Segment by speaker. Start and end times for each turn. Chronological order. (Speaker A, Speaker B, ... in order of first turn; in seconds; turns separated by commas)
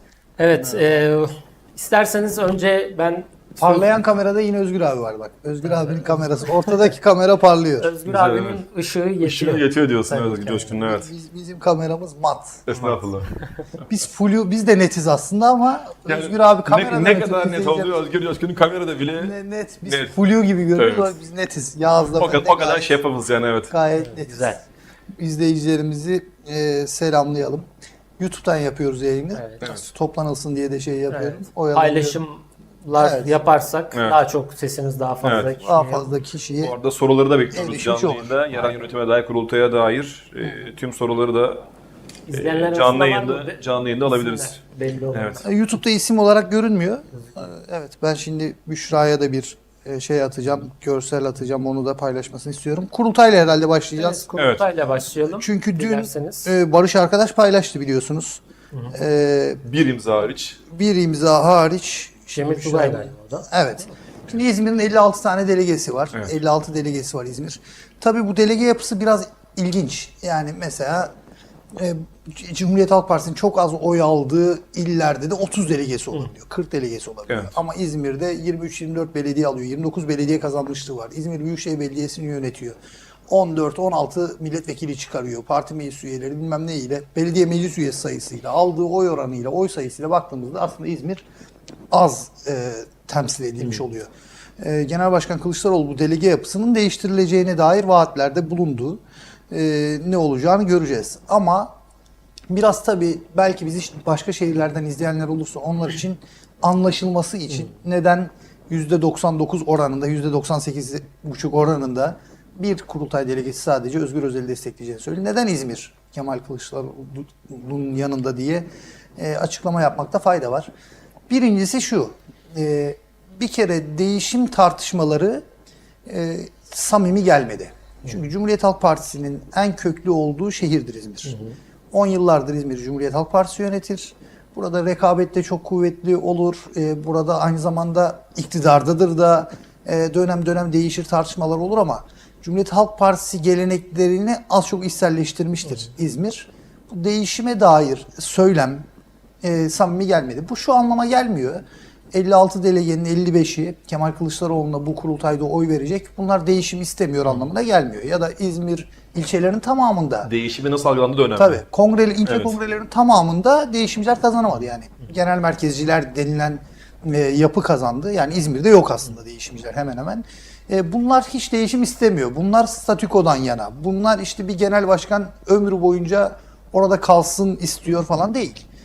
Speaker A: 0.4-3.9, Speaker B: 3.6-7.9, Speaker A: 5.8-6.1, Speaker A: 7.8-9.7, Speaker C: 8.0-8.6, Speaker C: 9.2-11.1, Speaker B: 10.1-12.6, Speaker C: 12.7-13.3, Speaker B: 13.9-17.9, Speaker C: 16.1-19.3, Speaker B: 19.1-22.9, Speaker C: 19.9-20.1, Speaker C: 20.8-21.1, Speaker C: 22.1-23.7, Speaker B: 23.7-24.6, Speaker A: 24.0-24.6, Speaker B: 25.2-27.6, Speaker B: 28.2-32.2, Speaker A: 29.3-29.6, Speaker A: 31.1-36.1, Speaker B: 32.9-33.4, Speaker C: 35.2-35.5, Speaker B: 35.6-36.7, Speaker C: 36.6-41.6, Speaker B: 37.5-38.3, Speaker A: 42.3-45.5, Speaker C: 42.3-44.6, Speaker C: 45.1-45.4, Speaker B: 45.4-54.3, Speaker A: 54.0-56.5, Speaker C: 54.4-54.6, Speaker B: 55.3-58.4, Speaker B: 58.9-59.6, Speaker C: 59.6-60.6, Speaker B: 60.7-71.1, Speaker A: 62.3-63.5, Speaker B: 71.8-82.8, Speaker B: 83.3-91.2, Speaker B: 91.9-94.1, Speaker B: 94.6-99.0, Speaker B: 99.5-101.7, Speaker B: 102.5-120.7, Speaker B: 121.3-125.4, Speaker B: 126.1-131.4, Speaker A: 131.3-131.5, Speaker B: 131.9-148.8, Speaker B: 149.4-160.3, Speaker C: 160.2-161.6, Speaker B: 161.3-178.7, Speaker C: 162.2-162.6